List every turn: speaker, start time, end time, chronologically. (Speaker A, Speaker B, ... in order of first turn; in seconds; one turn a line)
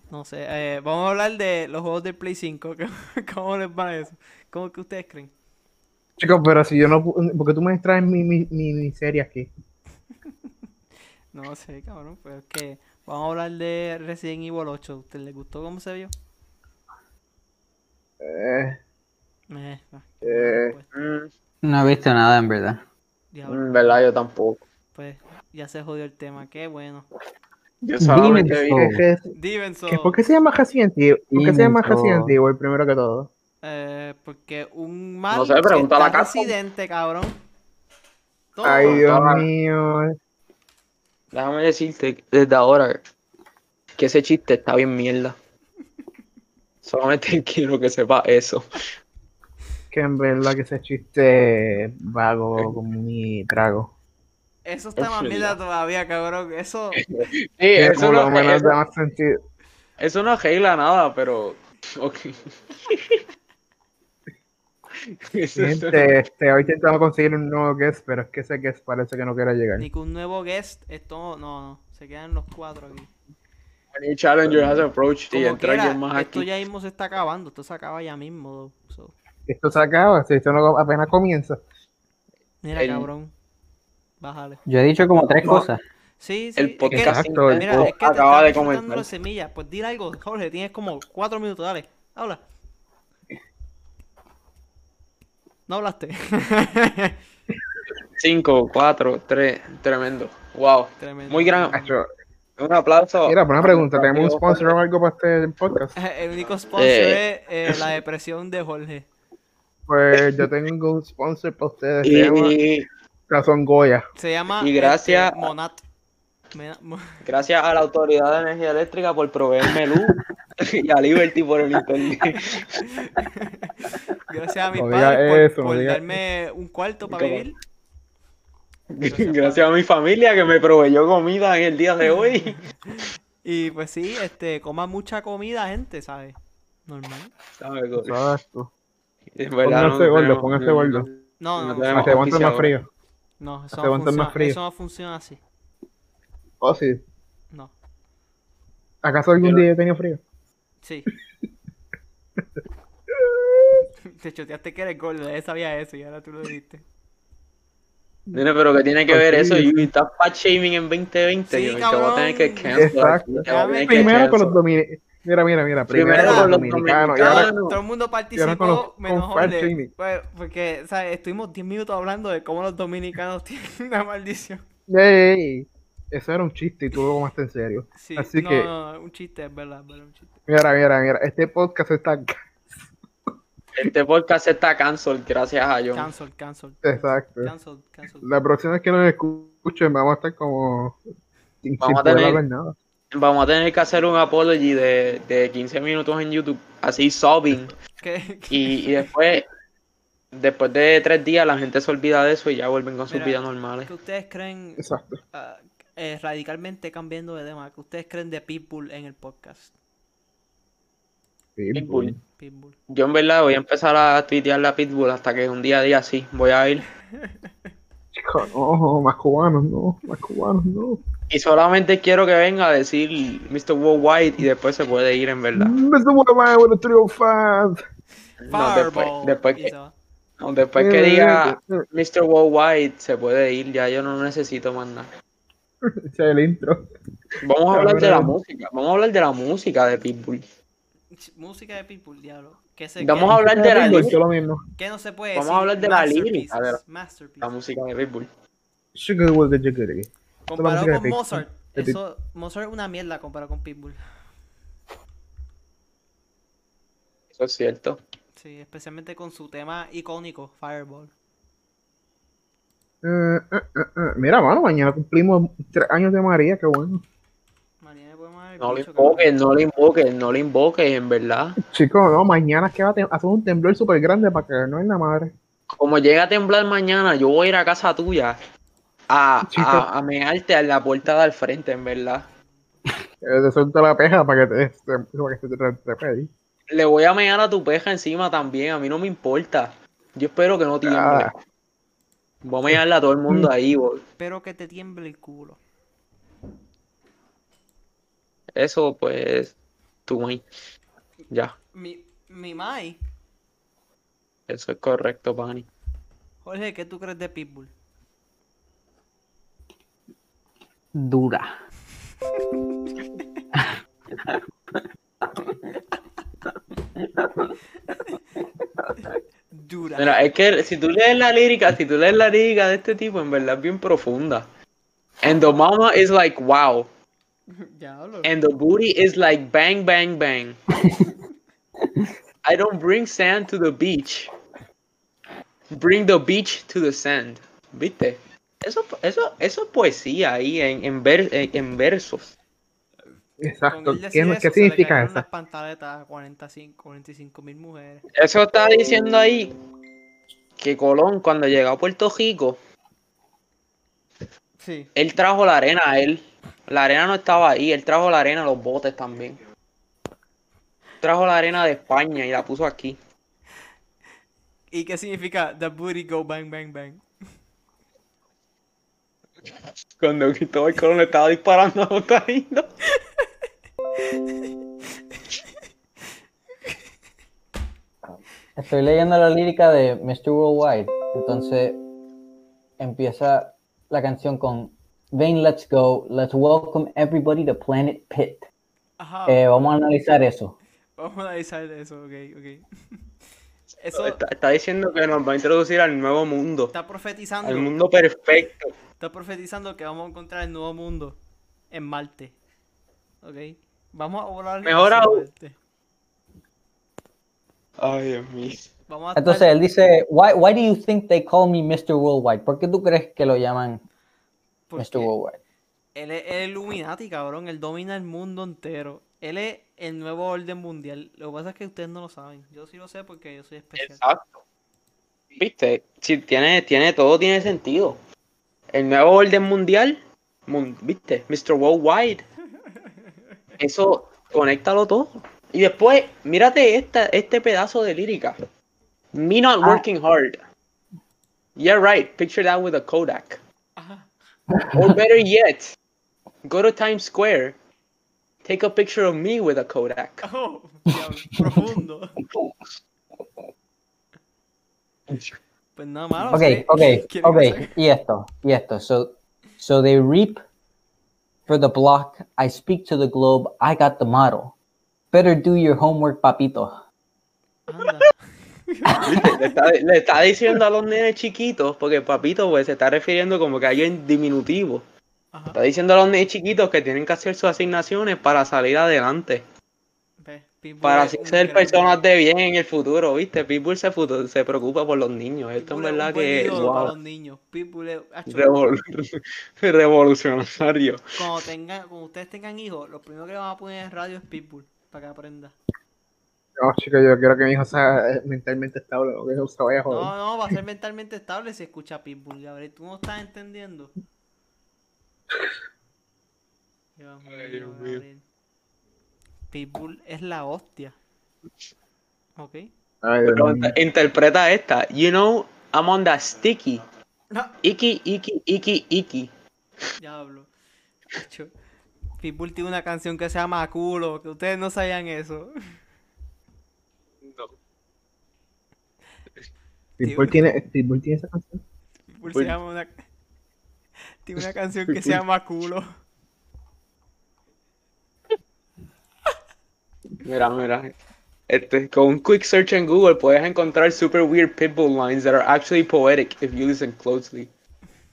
Speaker A: 0.1-5.3
Speaker B: 6.2-9.5
Speaker A: 11.3-16.1
Speaker B: 18.2-18.8
Speaker A: 19.5-20.9
Speaker B: 20.2-20.7
Speaker C: 20.9-21.3
Speaker D: 21.6-22.8
Speaker A: 23.3-24.0
Speaker C: 23.5-24.6
Speaker A: 24.9-27.1
Speaker C: 27.8-28.9
Speaker D: 28.0-29.0
Speaker B: 28.3-29.3
Speaker A: 29.3-30.2
Speaker B: 29.9-33.3
Speaker D: 31.3-32.4
Speaker A: 33.6-37.4
Speaker C: 35.3-36.5
Speaker A: 38.5-39.0
Speaker B: 38.6-40.1
Speaker C: 38.7-39.5
Speaker C: 41.3-43.0
Speaker C: 44.0-45.4
Speaker C: 46.8-48.8
Speaker B: 49.9-53.9
Speaker A: 54.6-57.0
Speaker C: 55.0-55.6
Speaker C: 57.0-58.7
Speaker B: 57.8-59.4
Speaker C: 60.0-63.2
Speaker C: 65.0-66.1
Speaker B: 65.5-69.9
Speaker A: 69.8-73.1
Speaker C: 73.9-76.5
Speaker B: 74.4-74.9
Speaker A: 75.3-79.1
Speaker B: 79.5-81.6
Speaker A: 82.6-83.3
Speaker C: 82.7-83.1
Speaker A: 84.2-84.6
Speaker D: 84.7-85.8
Speaker A: 86.2-92.4
Speaker C: 86.6-89.1
Speaker B: 86.9-87.9
Speaker A: 95.7-97.2
Speaker C: 98.2-101.8
Speaker A: 101.0-101.9
Speaker B: 101.7-102.1
Speaker C: 102.6-104.7
Speaker B: 103.2-105.9
Speaker A: 105.9-109.1
Speaker C: 106.8-107.8
Speaker B: 109.9-112.5
Speaker C: 110.2-110.5
Speaker C: 112.0-112.8
Speaker B: 113.3-114.0
Speaker A: 114.2-115.8
Speaker C: 114.6-115.5
Speaker A: 116.5-117.2
Speaker C: 117.2-122.8
Speaker A: 122.3-127.5
Speaker B: 124.8-126.2
Speaker C: 127.1-127.5
Speaker C: 128.9-132.6
Speaker A: 129.0-129.7
Speaker A: 132.1-137.3
Speaker C: 137.6-138.2
Speaker B: 138.0-138.7
Speaker C: 139.3-142.7
Speaker B: 139.6-141.1
Speaker A: 141.4-142.2
Speaker B: 141.9-142.8
Speaker A: 143.4-145.4
Speaker B: 143.7-144.6
Speaker B: 146.6-147.0
Speaker B: 149.0-150.2
Speaker A: 150.8-151.1
Speaker B: 153.1-153.8
Speaker A: 154.1-156.8
Speaker C: 158.3-164.6
Speaker B: 159.1-159.9
Speaker A: 161.5-162.8
Speaker B: 162.7-167.5
Speaker A: 163.4-164.2
Speaker C: 165.9-167.8
Speaker A: 166.1-166.6
Speaker A: 167.2-174.6
Speaker B: 168.3-169.9
Speaker B: 174.9-178.7
Speaker A: 177.9-180.3
Speaker B: 180.5-182.3
Speaker C: 183.7-186.1
Speaker A: 185.9-188.3
Speaker B: 186.8-187.5
Speaker B: 188.2-191.0
Speaker B: 191.6-192.7
Speaker C: 191.8-192.4
Speaker C: 193.1-197.7
Speaker A: 198.0-199.1
Speaker C: 198.5-199.4
Speaker C: 200.3-203.9
Speaker A: 203.1-209.7
Speaker B: 204.8-205.2
Speaker B: 211.6-212.2
Speaker C: 211.7-212.1
Speaker A: 212.4-212.8
Speaker C: 212.9-216.8
Speaker B: 218.1-221.0
Speaker C: 221.3-225.7
Speaker B: 225.6-227.8
Speaker C: 228.4-229.7
Speaker A: 228.5-229.9
Speaker C: 230.4-235.1
Speaker B: 230.8-231.8
Speaker B: 235.8-236.8
Speaker C: 237.4-240.4
Speaker B: 237.7-238.3
Speaker A: 241.1-244.2
Speaker C: 243.0-244.2
Speaker B: 243.3-244.6
Speaker A: 244.8-247.5
Speaker C: 245.3-246.8
Speaker C: 247.4-248.3
Speaker B: 248.9-252.0
Speaker A: 250.5-254.0
Speaker C: 257.3-258.0
Speaker A: 258.4-261.1
Speaker B: 263.0-267.0
Speaker A: 267.8-269.3
Speaker C: 268.6-271.6
Speaker B: 271.6-275.3
Speaker C: 275.7-278.4
Speaker C: 279.1-282.2
Speaker B: 279.5-279.9
Speaker B: 283.2-286.3
Speaker C: 286.7-291.3
Speaker B: 290.9-291.3
Speaker C: 292.4-294.0
Speaker B: 292.7-293.5
Speaker A: 294.2-295.6
Speaker C: 298.6-299.5
Speaker C: 300.1-300.4
Speaker C: 301.3-301.5
Speaker A: 301.7-303.0
Speaker C: 304.5-305.7
Speaker A: 306.4-307.7
Speaker D: 310.9-311.5
Speaker D: 313.6-314.4
Speaker D: 317.1-317.4
Speaker A: 319.5-320.2
Speaker C: 320.0-324.4
Speaker C: 325.2-326.9
Speaker A: 327.5-328.3
Speaker C: 328.2-330.6
Speaker D: 330.8-331.1
Speaker D: 331.8-332.1
Speaker C: 332.4-334.3
Speaker C: 335.7-342.3
Speaker B: 343.4-345.2
Speaker A: 343.7-348.0
Speaker C: 348.1-349.5
Speaker C: 350.6-352.6
Speaker A: 354.6-354.9
Speaker C: 354.9-359.4
Speaker C: 361.0-363.0
Speaker A: 364.7-367.0
Speaker C: 370.0-372.7
Speaker D: 378.6-381.8
Speaker D: 382.8-388.4
Speaker A: 389.0-389.8
Speaker D: 389.3-390.5
Speaker A: 391.0-392.9
Speaker A: 393.8-394.2
Speaker C: 394.0-396.7
Speaker A: 396.7-397.7
Speaker C: 397.4-398.7
Speaker A: 399.0-401.2
Speaker A: 401.7-402.4
Speaker A: 403.2-405.6
Speaker C: 404.6-405.2
Speaker C: 407.8-408.7
Speaker A: 408.9-409.5
Speaker D: 409.1-413.8
Speaker A: 414.7-415.1
Speaker D: 414.8-415.4
Speaker A: 415.9-424.0
Speaker C: 423.8-424.4
Speaker C: 425.3-428.0
Speaker C: 428.7-432.2
Speaker C: 433.6-438.4
Speaker C: 439.1-440.4
Speaker C: 441.6-443.4
Speaker A: 443.8-444.1
Speaker D: 444.6-444.8
Speaker C: 444.7-445.8
Speaker C: 446.4-447.6
Speaker C: 448.4-450.2
Speaker A: 450.2-452.1
Speaker A: 455.8-457.7
Speaker D: 456.2-460.4
Speaker D: 461.5-464.5
Speaker D: 465.1-466.7
Speaker A: 467.7-469.6
Speaker C: 468.9-474.8
Speaker A: 475.3-475.6
Speaker C: 475.5-479.4
Speaker A: 480.2-482.0
Speaker C: 480.8-486.9
Speaker A: 485.6-488.6
Speaker C: 488.3-491.0
Speaker A: 491.1-495.6
Speaker B: 496.6-500.1
Speaker A: 499.9-503.9
Speaker A: 507.0-508.2
Speaker C: 507.3-508.0
Speaker A: 509.5-510.9
Speaker A: 512.4-512.7
Speaker B: 513.0-513.8
Speaker C: 513.3-516.8
Speaker A: 517.3-517.6
Speaker C: 517.6-519.3
Speaker A: 520.0-520.5
Speaker A: 521.1-521.5
Speaker A: 522.2-525.5
Speaker C: 527.2-527.5
Speaker B: 530.0-531.6
Speaker A: 530.0-530.4
Speaker A: 532.1-533.0
Speaker C: 532.3-532.5
Speaker A: 534.2-535.9
Speaker C: 534.9-535.2
Speaker C: 540.2-540.9
Speaker C: 541.5-547.5